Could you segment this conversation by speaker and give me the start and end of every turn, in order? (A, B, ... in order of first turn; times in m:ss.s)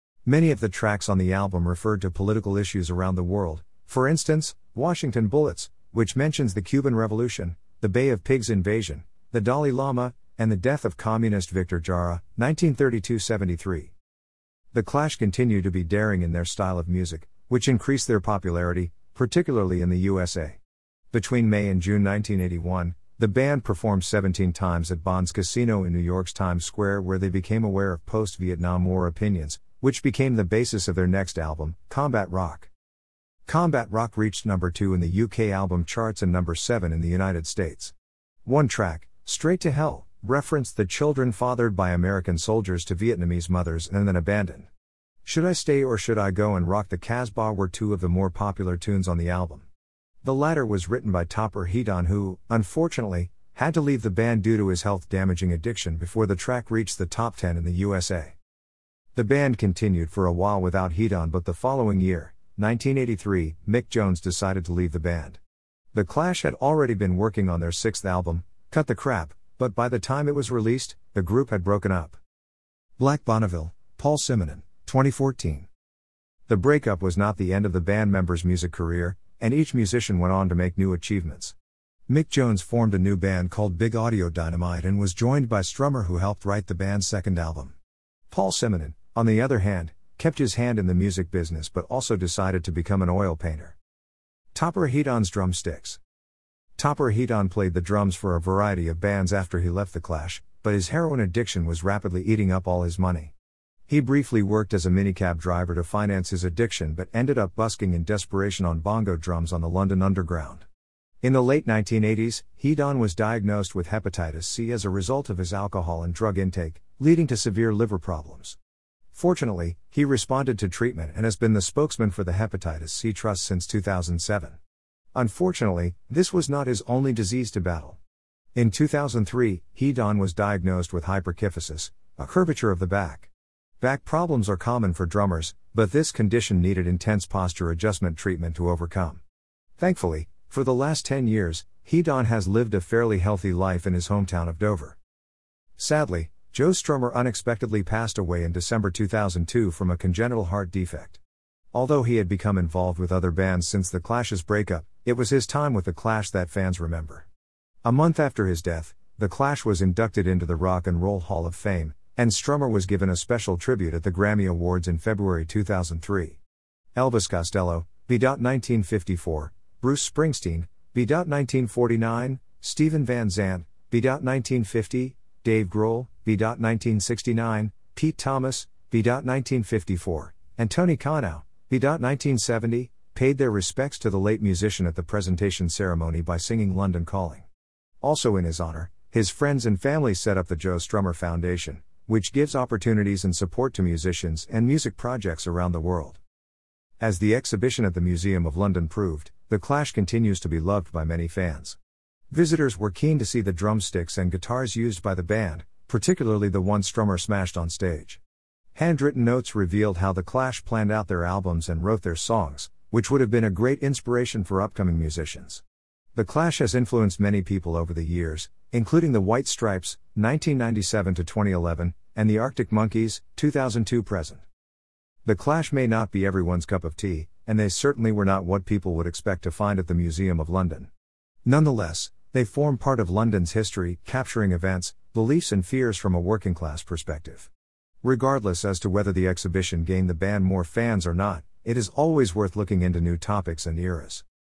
0:00.2-0:13.9 A
0:14.7-0:20.6 A
0:21.1-0:32.7 A
0:33.4-0:37.9 A
0:38.4-0:44.7 A
0:45.2-0:49.6 A
0:50.2-0:58.3 A
0:59.1-1:05.4 A
1:05.9-1:12.2 A
1:13.0-1:15.7 A
1:16.5-1:21.5 A
1:22.1-1:27.7 A
1:28.3-1:33.8 A
1:34.5-1:36.0 A
1:36.8-1:43.3 A
1:43.9-1:50.6 A
1:51.2-1:58.6 A
1:59.1-2:04.6 A
2:05.1-2:08.0 A
2:08.5-2:19.2 A
2:19.8-2:25.0 A
2:25.8-2:31.2 A
2:31.7-2:37.3 A
2:37.8-2:46.4 A
2:47.0-3:07.4 A
3:08.0-3:16.2 A
3:17.0-3:21.8 A
3:22.3-3:28.2 A
3:28.7-3:35.6 A
3:36.1-3:44.4 A
3:45.2-3:50.9 A
3:51.4-3:57.5 A
3:58.0-4:04.2 A